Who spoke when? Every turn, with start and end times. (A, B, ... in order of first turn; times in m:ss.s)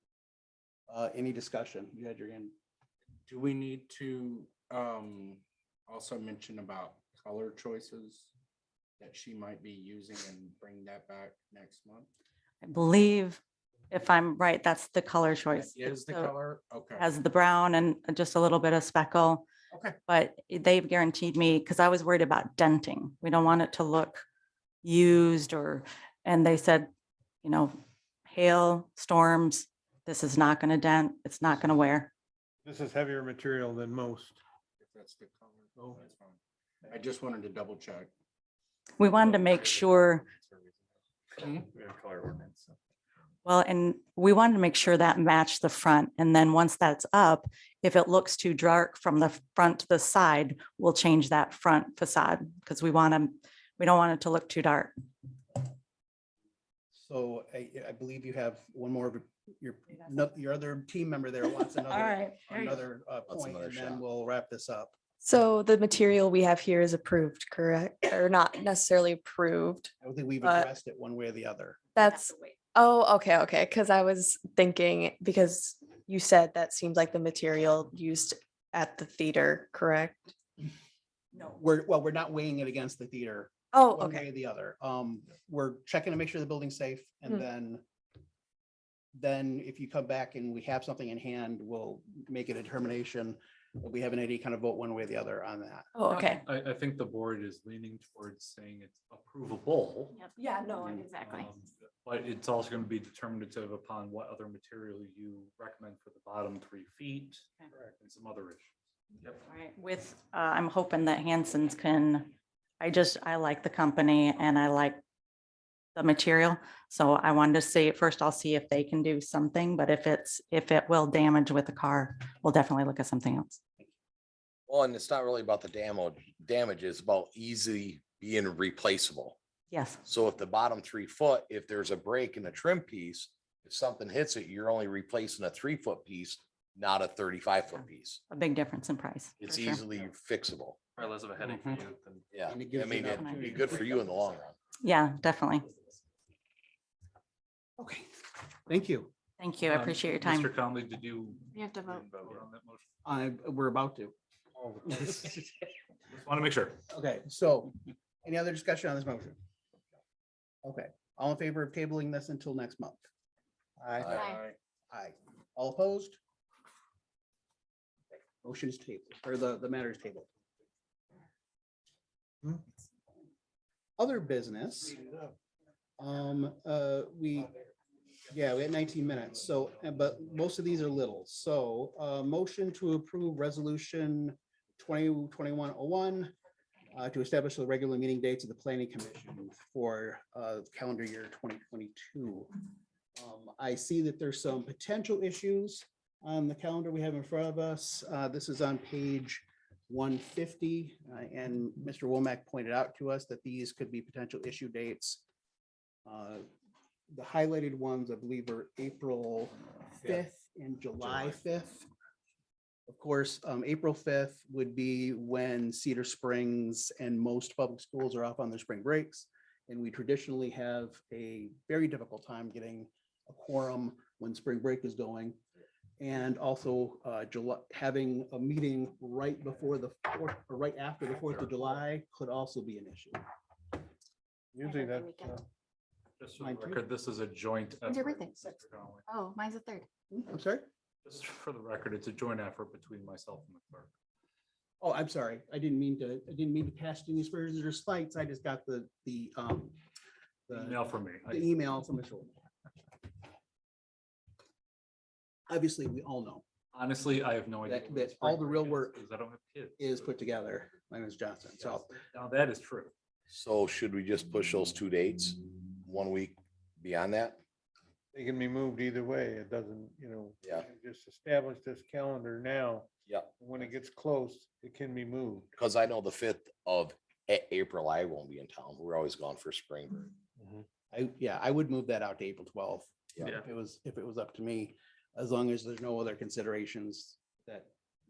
0:00.9-0:02.5 A
0:03.3-0:08.3 B
0:09.0-0:12.1 B
0:12.6-0:13.4 C
0:13.9-0:16.3 C
0:15.5-0:17.1 B
0:17.0-0:19.4 C
0:19.7-0:20.0 B
0:20.1-0:24.2 C
0:24.8-0:26.9 C
0:27.4-0:27.7 C
0:28.3-0:32.1 C
0:32.6-0:34.4 D
0:34.8-0:38.1 B
0:35.8-0:36.0 D
0:39.0-0:40.2 C
0:39.2-0:40.8 E
0:41.4-0:41.7 B
0:41.4-0:42.7 E
0:43.4-0:54.9 C
0:56.9-1:04.9 A
1:01.9-1:02.8 C
1:03.3-1:04.0 F
1:05.2-1:10.7 G
1:10.0-1:11.8 A
1:12.0-1:20.3 G
1:21.4-1:27.8 A
1:23.7-1:24.2 G
1:29.1-1:35.9 A
1:35.9-1:36.4 G
1:36.1-1:40.2 H
1:40.2-1:41.5 I
1:41.2-1:48.7 H
1:49.4-1:55.0 C
1:55.9-2:03.6 C
2:04.7-2:09.4 F
2:09.7-2:10.0 C
2:10.0-2:18.2 F
2:18.3-2:19.8 C
2:19.4-2:20.8 F
2:21.0-2:22.2 E
2:22.3-2:24.6 F
2:22.5-2:24.2 A
2:23.2-2:23.6 C
2:24.8-2:25.6 C
2:27.8-2:28.1 A
2:28.6-2:29.1 A
2:29.4-2:30.5 C
2:29.7-2:32.9 H
2:31.8-2:32.4 E
2:33.0-2:34.1 A
2:34.6-2:35.3 D
2:34.9-2:35.2 A
2:36.1-2:36.8 H
2:36.9-2:37.7 A
2:38.2-2:39.4 A
2:40.6-2:43.0 A
2:43.8-2:44.1 A
2:44.0-2:44.6 B
2:44.0-2:44.3 F
2:44.9-2:46.2 A
2:48.4-2:50.3 A
2:54.0-2:55.0 A
2:54.9-2:55.3 D
2:56.0-2:57.5 A
2:58.3-3:06.3 A
3:06.9-3:12.5 A
3:13.2-3:25.2 A
3:26.0-3:26.4 A
3:27.1-3:31.8 A
3:31.0-3:31.3 D
3:32.9-3:45.4 A
3:46.0-3:53.2 A
3:54.5-3:55.4 D
3:54.6-3:55.3 I
3:56.2-3:59.0 H
3:56.4-3:56.8 A
3:57.8-3:58.5 I
3:59.1-3:59.9 I
4:00.1-4:00.7 A
4:01.0-4:03.9 H
4:04.8-4:09.8 A
4:10.5-4:12.4 A
4:10.5-4:11.5 H
4:15.5-4:16.4 A
4:16.7-4:20.0 H
4:17.6-4:19.0 A
4:19.8-4:21.9 A
4:21.6-4:22.9 H
4:23.3-4:27.4 F
4:28.1-4:35.5 D
4:33.0-4:33.3 F
4:35.6-4:40.1 F
4:40.9-4:47.7 A
4:43.2-4:43.5 E